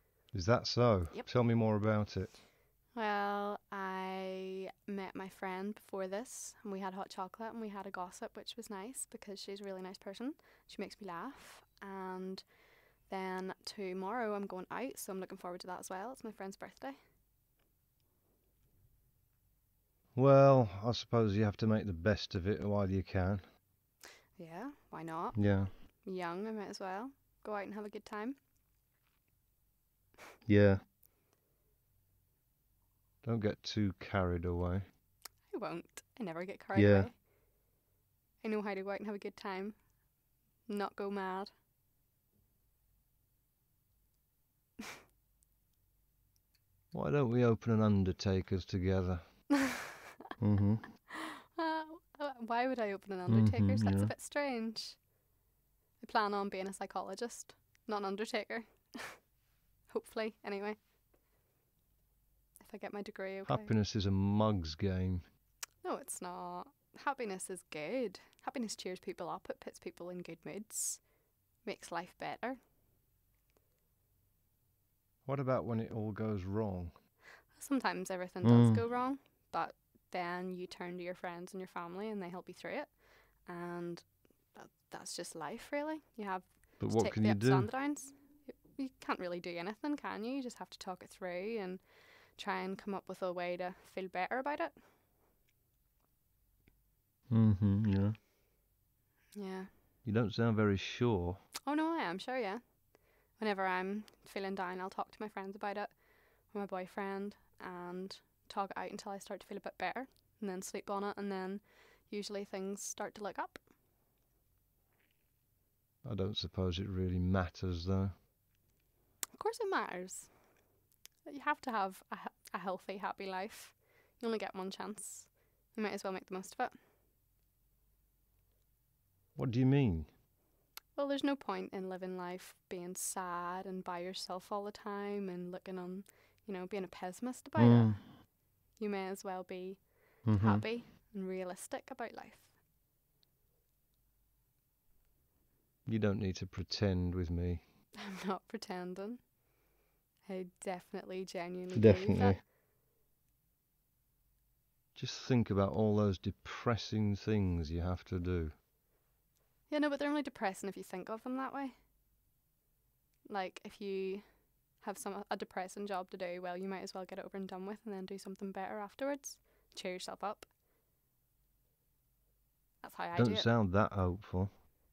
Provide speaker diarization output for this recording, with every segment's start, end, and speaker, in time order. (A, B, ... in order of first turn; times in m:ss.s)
0:00.3-0:02.4 A
0:01.1-0:01.4 B
0:02.9-0:17.0 B
0:20.1-0:23.4 A
0:24.4-0:28.4 B
0:25.3-0:25.7 A
0:30.5-0:30.8 A
0:33.2-0:34.9 A
0:35.5-0:37.2 B
0:36.7-0:37.1 A
0:38.4-0:39.9 B
0:40.7-0:41.5 B
0:46.9-0:49.5 A
0:50.4-0:50.9 A
0:51.6-0:55.0 B
0:53.3-0:54.1 A
0:56.0-0:59.3 B
0:59.9-1:00.8 B
1:02.6-1:03.7 B
1:03.5-1:05.2 A
1:05.8-1:11.1 B
1:11.6-1:12.6 B
1:15.2-1:16.9 A
1:17.5-1:34.8 B
1:18.4-1:18.8 A
1:26.8-1:27.7 A
1:37.3-1:38.2 A
1:39.3-1:39.7 B
1:40.0-1:41.4 A
1:41.6-1:42.6 B
1:43.3-1:53.6 B
1:56.0-1:58.1 A
1:59.4-2:00.4 B
2:01.2-2:06.7 B
2:09.3-2:10.1 A
2:10.9-2:18.2 B
2:17.6-2:18.0 A
2:18.8-2:22.6 B
2:20.2-2:20.6 A
2:25.8-2:27.6 A
2:27.9-2:29.3 B
2:30.2-2:32.4 B
2:31.7-2:32.4 A
2:34.9-2:38.5 A
2:39.7-2:41.7 B
2:43.3-2:50.5 B
2:52.8-2:53.5 B
2:53.1-2:54.5 A